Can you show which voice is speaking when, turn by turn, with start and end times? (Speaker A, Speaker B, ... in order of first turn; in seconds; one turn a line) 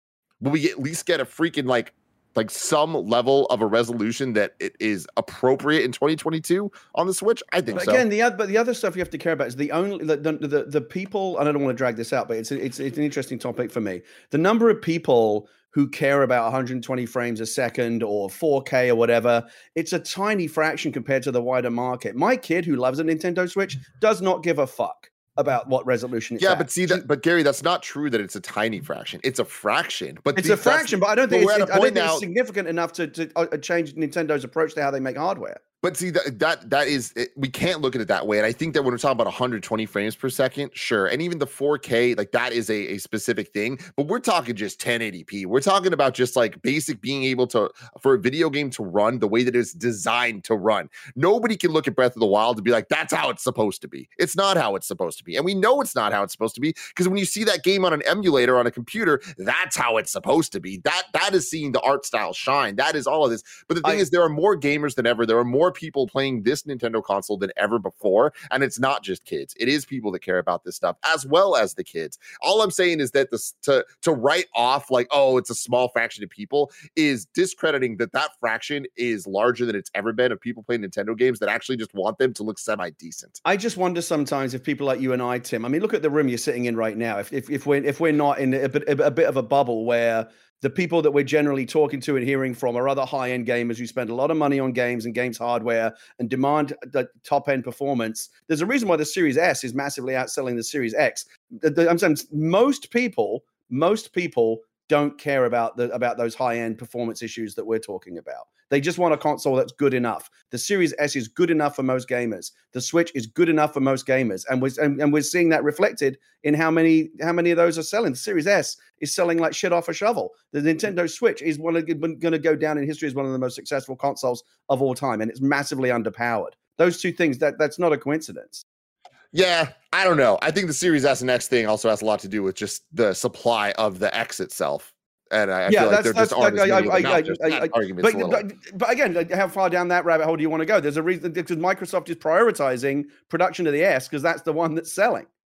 Speaker A: 0.4-8.1
Speaker B: 7.7-27.0
Speaker A: 26.4-32.3
Speaker B: 30.3-35.6
Speaker A: 35.8-83.4
Speaker B: 83.5-128.6
Speaker A: 129.3-138.5
Speaker B: 135.7-145.3